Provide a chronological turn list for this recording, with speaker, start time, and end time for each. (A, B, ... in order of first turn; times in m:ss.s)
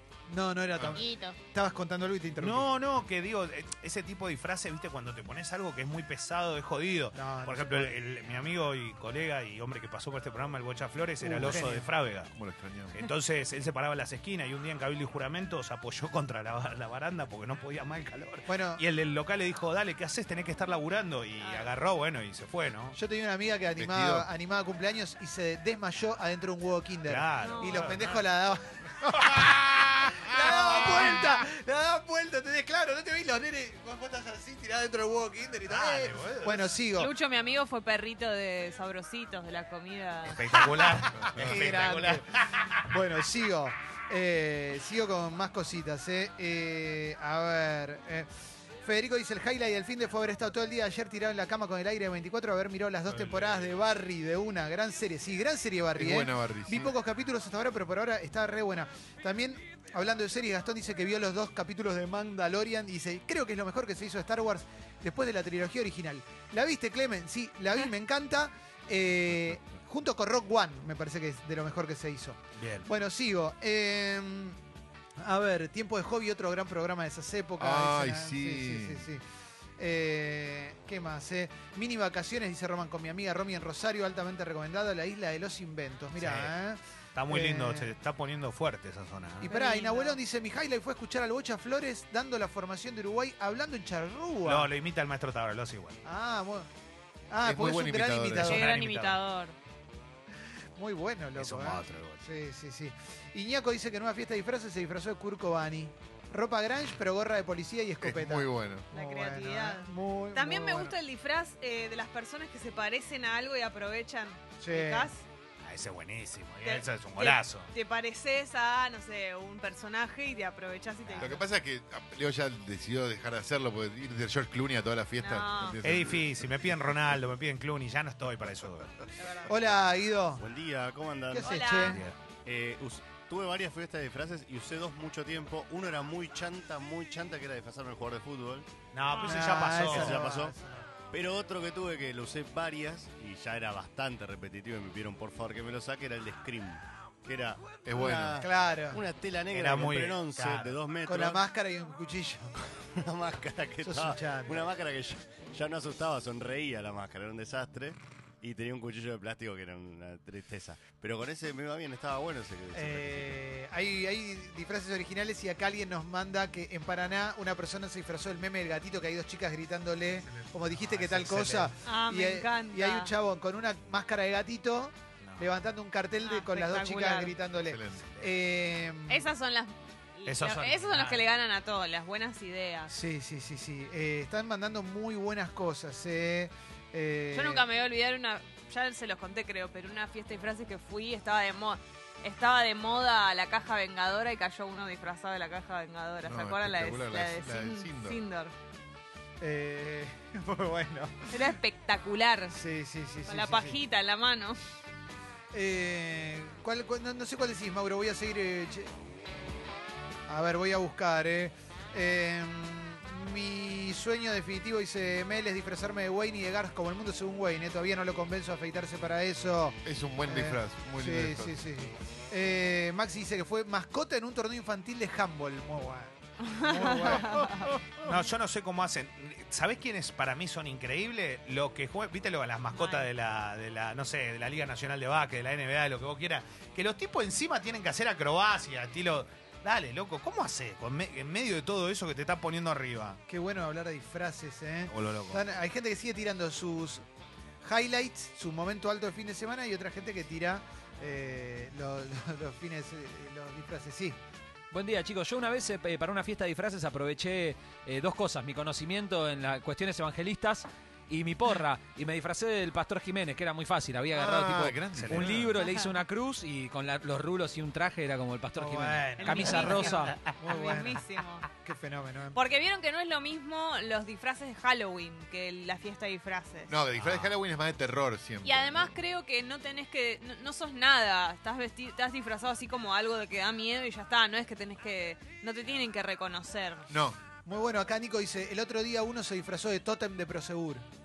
0:00.3-0:02.7 A
0:01.0-0:01.4 B
0:02.4-0:12.3 C
0:07.1-0:07.9 A
0:11.2-0:11.9 A
0:12.3-0:13.0 D
0:12.9-0:23.0 C
0:18.5-0:18.8 A
0:21.4-0:21.7 B
0:22.9-0:37.1 A
0:23.8-0:24.3 D
0:27.1-0:28.2 C
0:27.4-0:27.9 B
0:29.3-0:29.6 C
0:30.4-0:31.4 C
0:35.7-0:36.8 C
0:37.0-0:40.6 B
0:40.3-0:42.9 C
0:40.6-0:48.3 A
0:48.8-1:14.6 A
0:53.1-0:53.8 C
0:56.0-0:56.9 D
1:12.6-1:12.9 C
1:15.2-1:19.2 A
1:17.6-1:19.1 D
1:19.8-1:27.9 A
1:26.2-1:26.5 C
1:27.1-1:29.5 C
1:29.4-1:34.7 A
1:29.4-1:30.2 B
1:34.4-1:36.0 C
1:36.0-1:36.7 A
1:37.3-1:38.7 A
1:37.4-1:38.7 D
1:38.4-1:39.2 C
1:38.4-1:39.6 B
1:40.8-1:51.0 A
1:41.4-1:42.2 C
1:48.0-1:48.9 D
1:48.9-1:55.2 B
1:54.6-1:55.1 A
1:55.6-1:57.7 C
1:56.6-2:01.4 B
2:01.2-2:06.9 D
2:05.2-2:05.8 B
2:05.8-2:08.9 C
2:09.4-2:10.4 A
2:10.4-2:11.6 E
2:11.3-2:12.1 A
2:11.4-2:12.0 B
2:11.8-2:12.2 C
2:12.4-2:18.7 E
2:18.9-2:20.2 C
2:19.2-2:20.9 A
2:19.9-2:20.6 E
2:21.1-2:31.4 E
2:27.8-2:28.4 D
2:28.0-2:29.0 A
2:29.5-2:30.8 C
2:31.0-2:32.6 A
2:33.0-2:43.4 E
2:33.8-2:34.7 A
2:42.7-2:59.3 A
2:50.2-2:51.7 C
2:51.8-2:53.1 B
2:55.2-2:55.5 C
2:56.2-2:57.3 B
2:57.7-2:58.1 D
2:59.1-3:02.9 B
3:00.2-3:01.2 C
3:02.9-3:07.6 A
3:07.3-3:18.5 B
3:16.2-3:18.2 D
3:19.4-3:21.4 A
3:21.3-3:22.6 B
3:22.5-3:23.8 A
3:23.3-3:24.6 B
3:25.5-3:28.9 A
3:30.3-3:47.5 A
3:39.8-3:41.6 D
3:46.4-3:47.7 B
3:48.0-4:03.2 C
3:52.7-3:53.1 B
4:03.3-4:07.0 A
4:04.9-4:05.4 C
4:07.6-4:14.2 A
4:14.7-4:30.2 F
4:24.1-4:25.5 D
4:25.0-4:25.5 C
4:28.6-4:31.0 A
4:29.2-4:31.5 B
4:31.6-4:32.4 A
4:32.3-4:36.8 B
4:36.7-4:39.0 D
4:37.0-4:37.3 C
4:38.4-4:46.9 B
4:46.9-4:47.2 D
4:47.4-4:50.8 A